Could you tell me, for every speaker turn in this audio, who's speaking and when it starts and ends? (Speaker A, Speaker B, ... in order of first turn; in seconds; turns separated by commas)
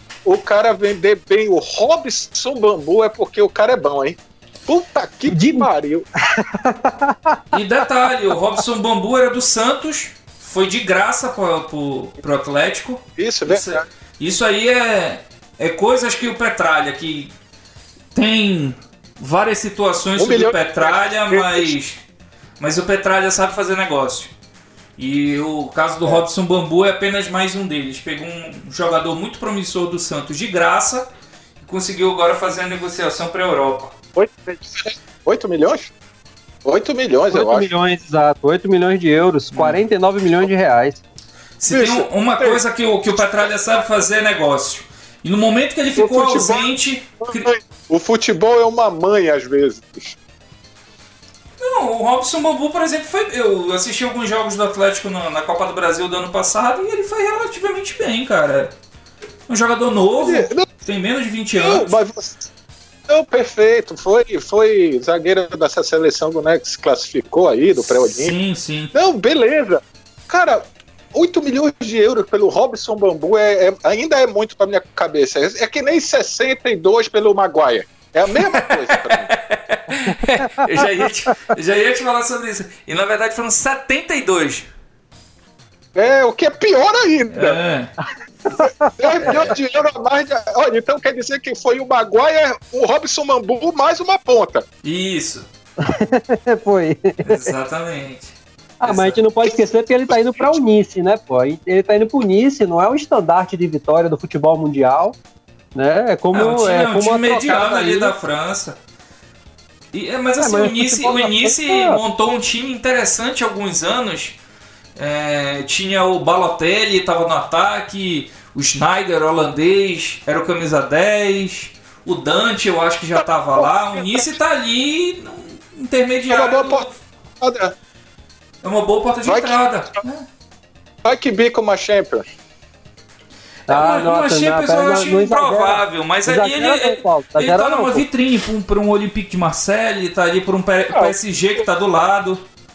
Speaker A: 0.2-6.1, Speaker B: 5.3-5.7, Speaker B: 6.3-7.5, Speaker C: 7.5-17.3, Speaker A: 13.2-13.8, Speaker C: 18.1-22.0, Speaker A: 20.2-21.7, Speaker C: 22.6-24.3, Speaker C: 25.0-31.1, Speaker C: 31.6-33.9, Speaker A: 34.1-35.9, Speaker A: 36.6-37.7, Speaker B: 37.3-41.0, Speaker C: 39.5-39.8, Speaker C: 41.6-47.5, Speaker A: 41.7-42.6, Speaker A: 46.0-46.7, Speaker A: 47.2-50.2, Speaker C: 51.6-58.7, Speaker C: 59.5-61.9, Speaker A: 60.2-60.7, Speaker A: 61.5-62.5, Speaker A: 63.1-68.3, Speaker C: 67.8-68.9, Speaker A: 68.9-79.3, Speaker C: 78.5-84.7, Speaker B: 80.4-80.8, Speaker A: 85.9-87.6, Speaker C: 87.3-87.9, Speaker B: 88.5-89.4, Speaker A: 89.0-94.7, Speaker C: 89.2-89.5, Speaker C: 94.8-95.5, Speaker B: 95.8-97.4, Speaker C: 97.2-99.2, Speaker B: 98.8-105.2, Speaker A: 100.1-100.6, Speaker B: 105.7-108.1, Speaker C: 106.3-108.8, Speaker C: 109.9-114.4, Speaker B: 110.4-112.0, Speaker C: 115.0-127.0, Speaker A: 123.5-124.3, Speaker A: 126.3-126.9, Speaker A: 127.4-127.7, Speaker C: 128.6-130.2, Speaker A: 129.2-129.6, Speaker A: 131.0-132.3, Speaker B: 133.7-138.0, Speaker C: 133.7-142.4